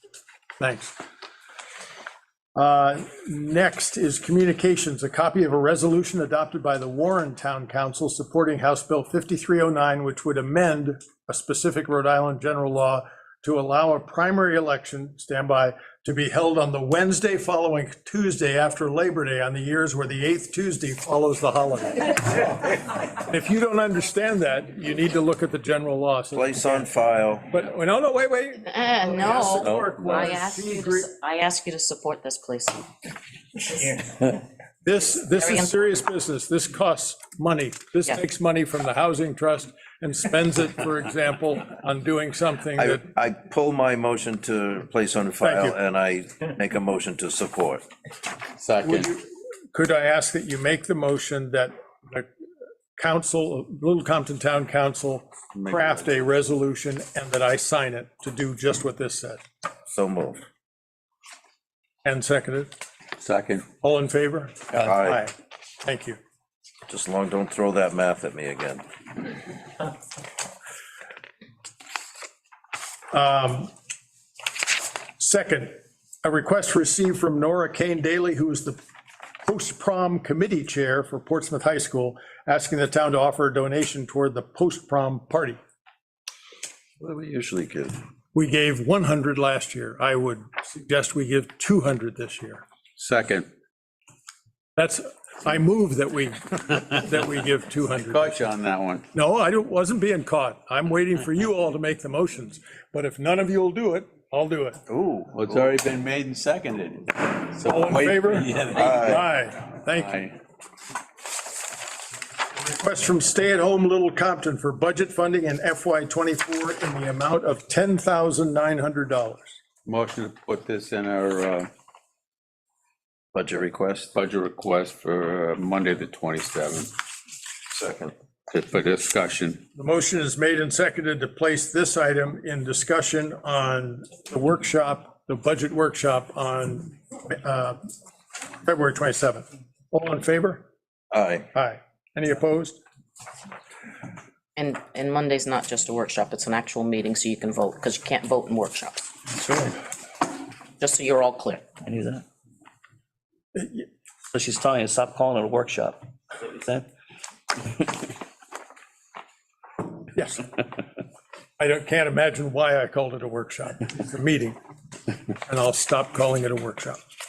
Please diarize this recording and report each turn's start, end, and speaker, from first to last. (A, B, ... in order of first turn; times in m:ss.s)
0:00.6-0:00.9 A
0:02.5-0:22.5 A
0:23.2-0:26.9 A
0:26.3-0:27.5 B
0:27.5-0:31.1 A
0:28.7-0:32.8 C
0:29.6-0:30.2 D
0:34.8-0:43.0 A
0:35.2-0:35.7 C
0:42.8-0:47.8 B
0:45.4-0:45.8 A
0:48.6-0:49.1 D
0:48.8-0:52.3 A
0:53.0-0:59.4 A
0:55.5-0:56.1 D
0:59.9-1:00.4 B
1:02.0-1:02.7 A
1:03.2-1:03.7 D
1:03.8-1:06.2 A
1:04.8-1:05.2 B
1:06.9-1:08.8 B
1:13.1-1:13.7 A
1:15.2-1:18.8 A
1:19.4-1:25.6 A
1:27.0-1:28.0 B
1:28.3-1:32.6 A
1:33.0-1:33.5 D
1:34.8-1:38.4 A
1:38.1-1:39.0 D
1:39.1-1:44.8 A
1:44.9-1:45.3 B
1:45.3-1:49.0 D
1:47.6-1:50.2 A
1:48.7-1:49.2 B
1:49.9-1:50.4 D
1:52.6-1:59.6 A
1:59.8-2:01.7 D
2:03.3-2:04.1 B
2:04.1-2:06.9 D
2:07.7-2:08.1 B
2:08.5-2:09.6 D
2:09.8-2:17.8 A
2:18.6-2:20.6 A
2:21.1-2:21.5 B
2:21.5-2:22.8 A
2:24.6-2:29.0 C
2:29.3-2:29.8 E
2:30.8-2:31.6 C
2:31.8-2:32.2 E
2:33.5-2:33.8 A
2:34.3-2:36.9 E
2:37.6-2:38.1 E
2:40.1-2:40.5 A
2:41.6-2:44.6 A
2:45.4-2:47.0 A